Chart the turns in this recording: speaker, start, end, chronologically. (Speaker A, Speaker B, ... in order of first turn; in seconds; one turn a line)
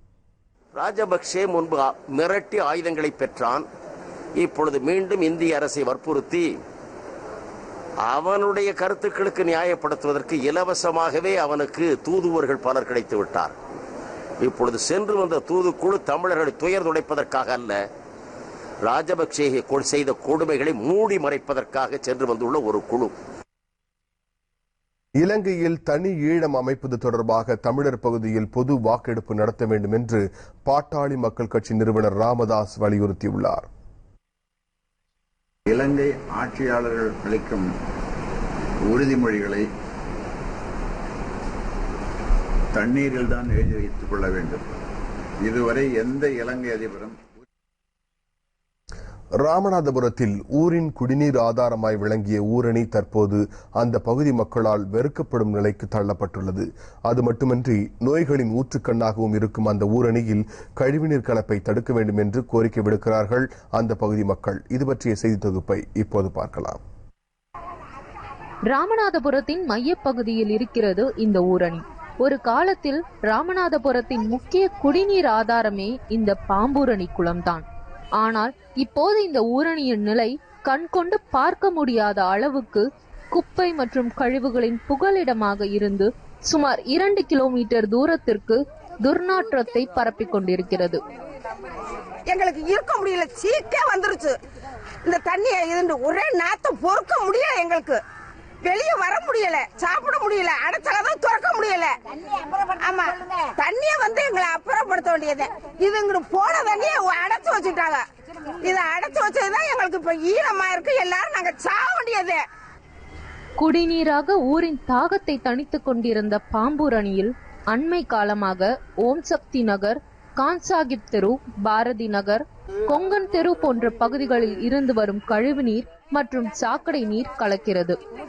Speaker A: 0.7-3.7
Speaker A: 4.4-6.6
Speaker A: 8.0-13.5
Speaker A: 14.4-17.8
Speaker A: 18.8-23.1
Speaker B: 25.2-33.7
Speaker C: 35.7-37.7
Speaker C: 38.9-39.6
Speaker C: 42.7-44.6
Speaker C: 45.4-47.2
Speaker B: 49.4-66.8
Speaker D: 68.7-77.6
Speaker D: 78.2-91.0
Speaker E: 92.3-94.3
Speaker E: 95.1-98.0
Speaker E: 98.7-101.9
Speaker E: 102.8-103.1
Speaker E: 103.6-108.0
Speaker E: 108.7-112.4
Speaker D: 113.6-128.0